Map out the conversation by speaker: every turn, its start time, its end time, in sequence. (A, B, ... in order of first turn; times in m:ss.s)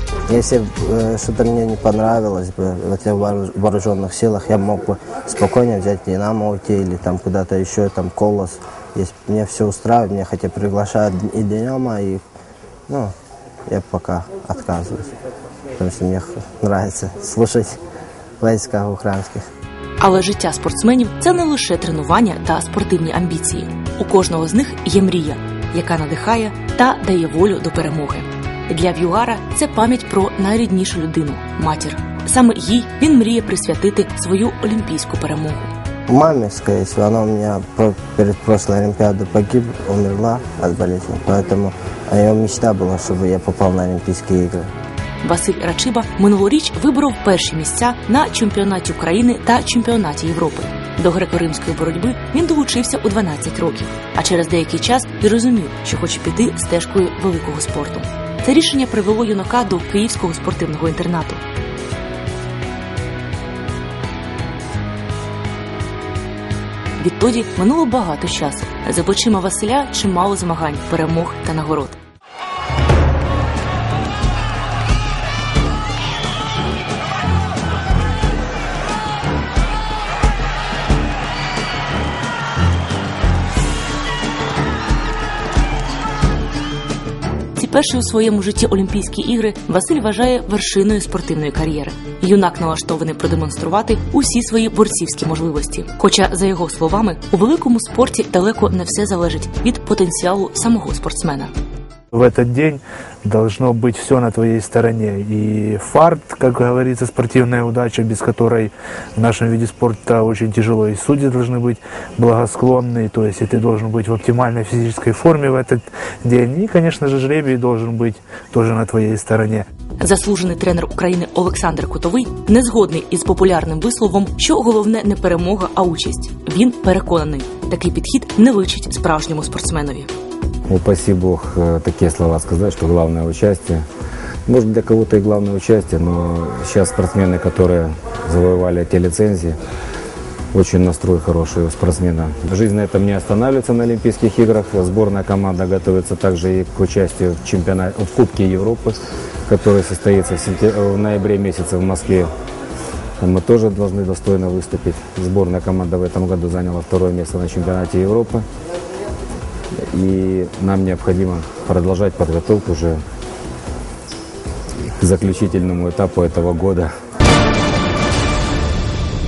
0:00.3-0:12.2 A
0:12.9-0:13.1 A
0:13.7-0:15.1 A
0:15.8-0:17.7 A
0:18.4-0:19.5 A
0:20.0-0:35.7 B
0:36.1-0:44.7 A
0:45.2-1:01.4 B
1:07.0-1:12.0 B
1:27.6-1:41.5 B
1:42.1-1:59.6 C
2:00.0-2:10.1 B
2:10.7-2:13.8 D
2:14.5-2:19.6 D
2:20.5-2:32.3 D
2:33.2-2:38.4 D
2:39.8-2:43.0 D
2:45.0-2:46.9 D